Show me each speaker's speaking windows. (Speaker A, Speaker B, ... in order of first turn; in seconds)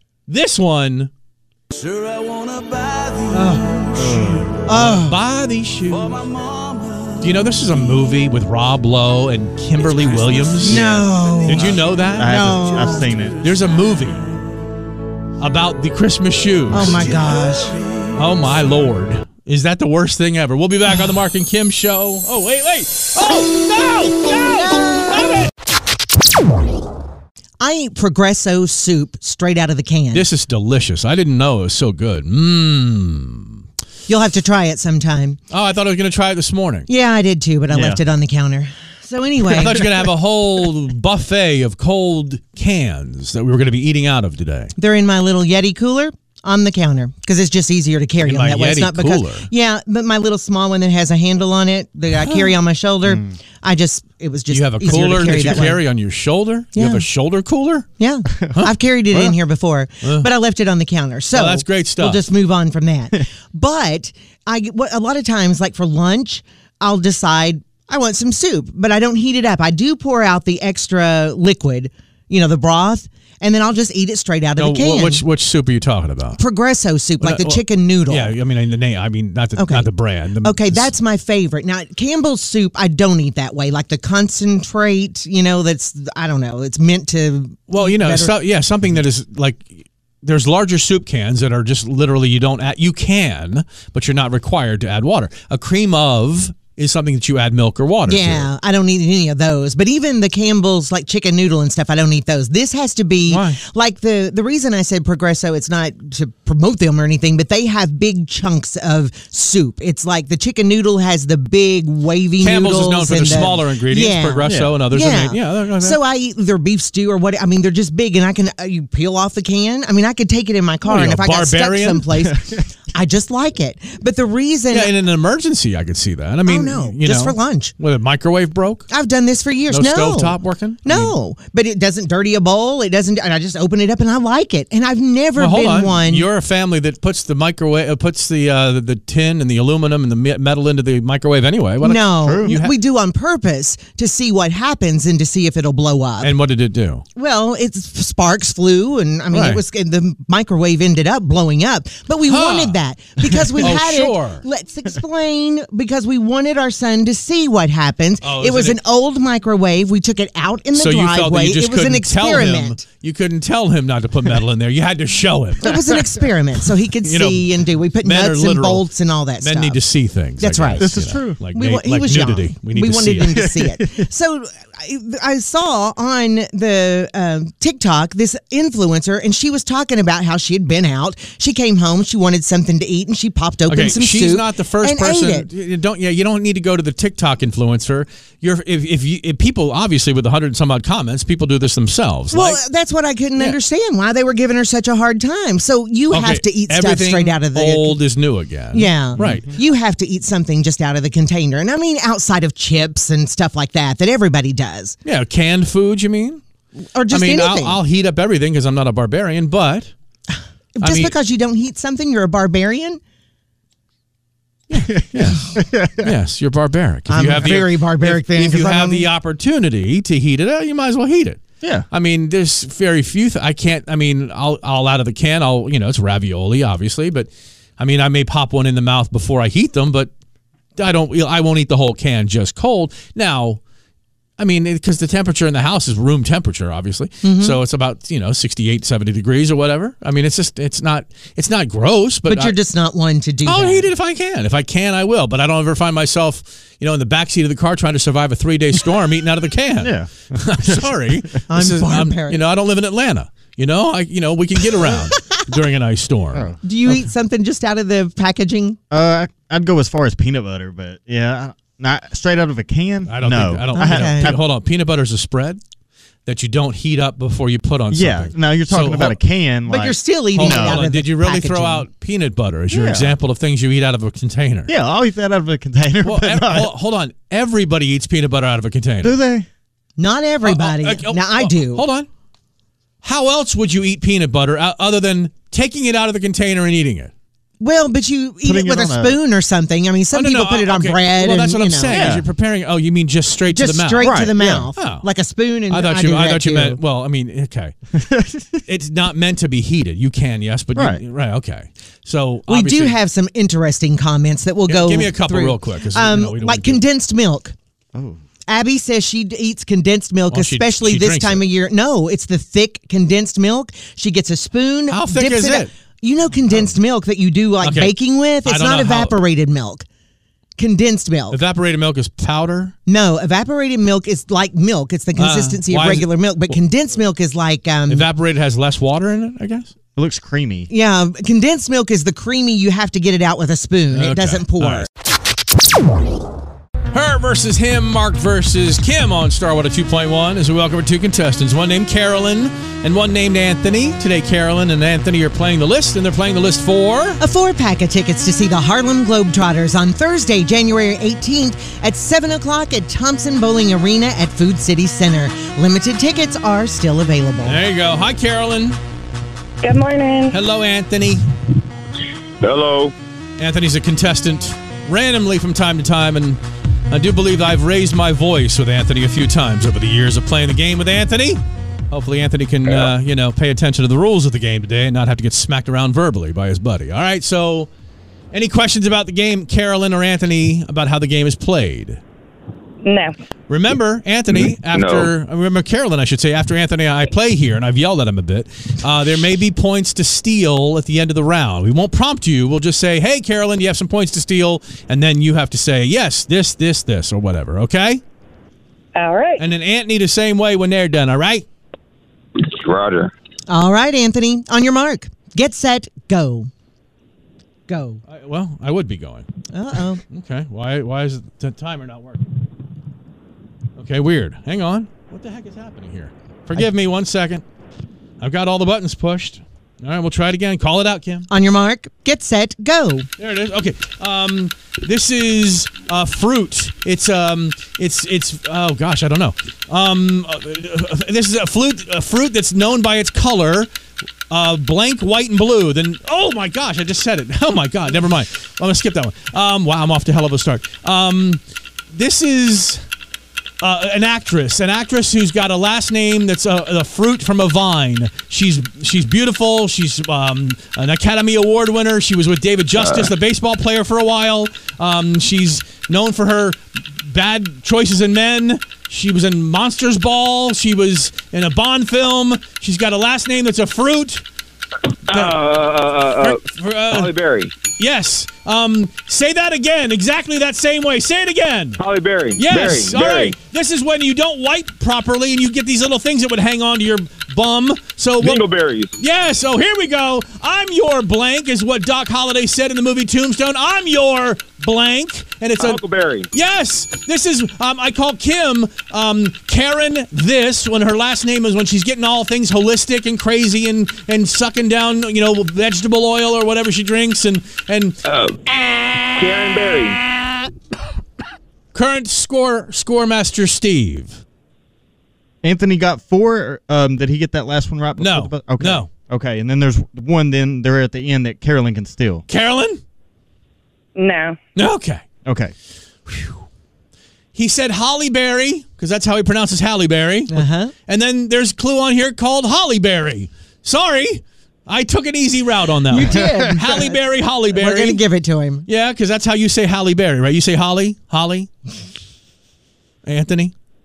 Speaker A: 0.3-1.1, 3.3-6.3, 7.2-10.9, 11.4-12.6, 13.4-14.3, 15.4-17.1, 18.1-25.5, 30.1-33.6, 35.5-36.9, 39.5-44.7, 48.2-49.5, 52.2-52.5, 54.5-57.9, 58.5-59.4, 60.0-60.3, 61.3-62.2, 74.6-76.4, 77.2-80.9, 87.7-98.5, 103.3-103.6, 112.4-116.0, 120.8-122.1, 124.7-128.9, 129.7-131.1, 135.4-142.7, 146.2-147.0, 149.3-149.6, 152.3-152.8, 153.6-154.4, 158.2-158.8, 160.7-165.8, 167.0-168.9, 169.4-173.4, 183.7-192.6, 196.1-199.5, 205.0-206.4, 207.1-209.9, 210.8-211.1, 214.7-215.5, 216.0-230.1, 230.8-233.6, 234.4-242.6, 243.4-256.5, 263.1-265.6, 266.2-269.2, 270.4-274.7, 276.0-279.2, 280.4-282.1, 283.0-287.1, 290.1-295.1, 295.7-297.7, 298.7-302.9, 304.7-306.8, 310.3-311.4, 314.9-315.7, 317.6-319.1, 321.3-322.7, 325.2-326.5, 327.9-329.7, 333.9-334.9, 336.9-347.2, 357.4-358.8, 360.3-361.2, 363.4-377.7, 378.3-382.0, 383.5-398.0, 399.4-401.4, 408.1-409.3, 410.1-412.3, 413.8-417.4, 418.2-421.3, 423.2-433.7, 434.3-441.4, 441.9-442.8, 443.6-464.2, 465.1-465.4, 466.2-467.1, 467.7-471.8, 472.4-478.4, 479.0-485.8, 486.3-498.0, 501.7-504.2, 508.0-508.9, 512.3-512.8, 514.5-515.0, 516.1-516.4, 517.3-528.0, 528.7-531.5, 533.0-533.5
Speaker B: 3.9-4.5, 10.6-13.4, 37.7-38.0, 53.0-53.3, 114.4-114.8, 142.2-142.6, 170.8-171.4, 173.3-174.1, 199.2-199.5, 214.8-216.1, 249.8-251.0, 258.9-264.4, 267.9-270.8, 272.7-273.1, 274.7-276.7, 279.0-279.5, 288.4-289.2, 291.9-292.2, 294.0-294.7, 297.9-298.6, 300.7-301.0, 316.4-316.7, 329.9-330.7, 505.4-512.2, 515.2-515.5, 526.0-526.5
Speaker C: 4.7-5.2, 10.6-13.0, 16.7-17.8, 24.6-25.3, 27.6-30.2, 34.1-35.4, 36.9-39.8, 44.8-55.8, 56.7-57.0, 58.0-75.2, 76.4-78.3, 79.6-79.9, 80.4-88.3, 98.1-124.9, 126.5-127.7, 128.9-136.2, 141.8-146.3, 147.2-162.8, 165.6-169.8, 170.4-185.5, 192.3-198.0, 198.7-205.0, 206.9-207.8, 210.8-213.0, 217.1-219.1, 237.2-237.6, 242.3-243.9, 251.5-252.4, 256.6-258.8, 263.8-264.3, 269.7-271.9, 280.0-281.8, 287.6-292.0, 293.5-296.8, 302.5-307.5, 308.5-319.9, 320.6-321.4, 322.9-328.1, 330.7-334.9, 347.2-357.6, 403.5-406.5, 407.7-408.0, 409.5-410.0, 421.3-423.1, 520.3-520.7, 525.9-527.0, 527.5-528.6
Speaker D: 359.6-360.3, 382.8-383.1, 398.9-399.4, 514.0-514.4
Speaker E: 362.4-362.9, 372.6-372.9, 384.3-385.1, 402.4-403.1, 452.8-453.1, 465.1-467.5, 471.8-473.4, 478.2-478.9, 485.6-486.3, 498.0-498.4, 499.1-500.0